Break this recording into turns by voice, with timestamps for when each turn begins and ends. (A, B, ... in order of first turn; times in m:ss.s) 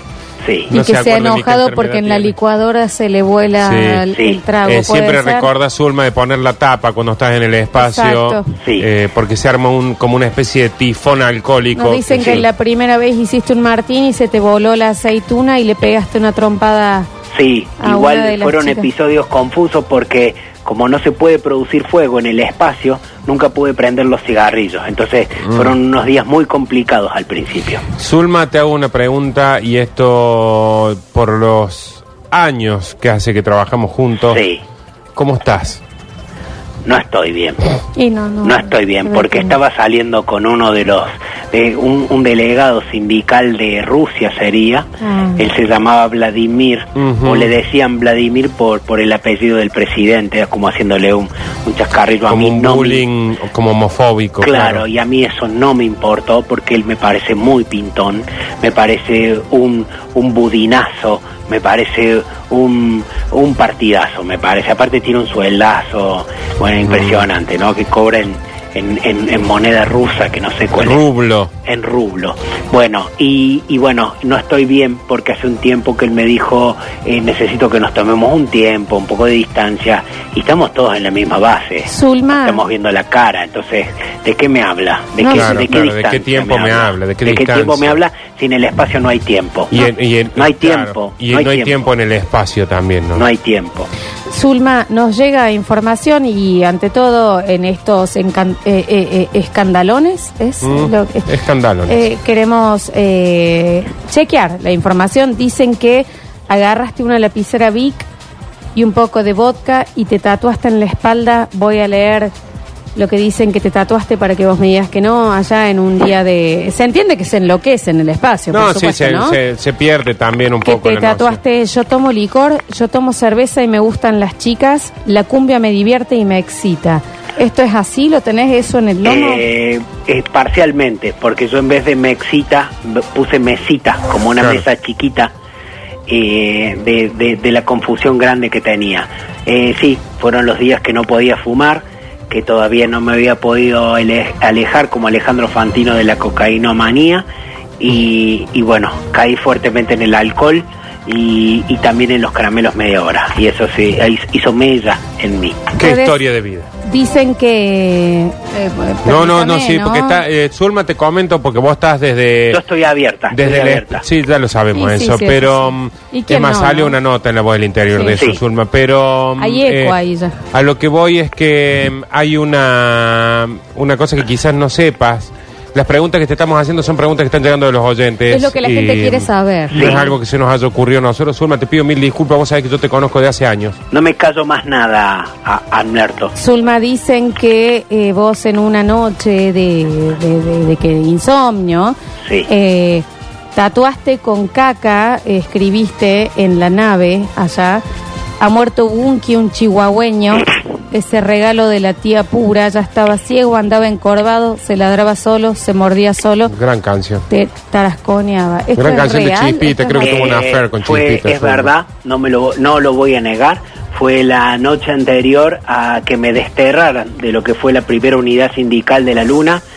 0:00.4-0:00.7 A
0:00.7-0:02.3 B
0:00.7-0:05.5 C
0:03.6-0:04.1 B
0:04.1-0:04.4 A
0:04.6-0:12.4 B
0:07.7-0:08.5 C
0:08.6-0:08.9 A
0:11.7-0:17.1 C
0:12.2-0:12.4 A
0:17.3-0:27.8 A
0:17.8-0:18.9 C
0:28.0-0:34.4 B
0:34.2-0:34.6 A
0:35.2-0:35.8 B
0:36.8-0:37.6 A
0:38.0-0:39.6 C
0:38.4-0:53.0 A
0:45.0-0:45.5 C
0:47.0-0:47.5 B
0:52.3-0:54.8 B
0:54.4-1:11.0 A
1:06.9-1:07.2 B
1:10.8-1:11.5 B
1:11.6-1:31.9 A
1:21.8-1:22.6 C
1:25.2-1:25.6 C
1:25.2-1:28.0 B
1:29.7-1:33.2 B
1:33.1-1:33.9 A
1:34.3-1:41.3 C
1:40.6-1:42.0 B
1:41.9-1:48.1 C
1:48.7-1:52.3 C
1:52.9-1:59.4 C
1:58.5-2:01.4 B
2:00.6-2:09.4 C
2:09.0-2:15.3 A
2:16.1-2:27.2 A
2:27.8-2:35.7 A
2:35.8-2:36.7 B
2:35.8-2:36.2 C
2:36.8-2:40.2 C
2:39.0-2:42.6 B
2:42.5-2:44.0 A
2:43.3-2:50.0 B
2:44.7-2:47.0 C
2:47.9-2:48.2 C
2:49.4-2:50.4 C
2:50.5-3:03.8 B
2:58.3-3:00.1 C
2:59.7-3:00.0 A
3:03.9-3:06.3 A
3:06.3-3:12.0 C
3:12.5-3:17.8 C
3:18.4-3:26.5 C
3:26.5-3:27.2 B
3:27.3-3:30.2 C
3:28.8-3:31.7 B
3:30.0-3:39.6 A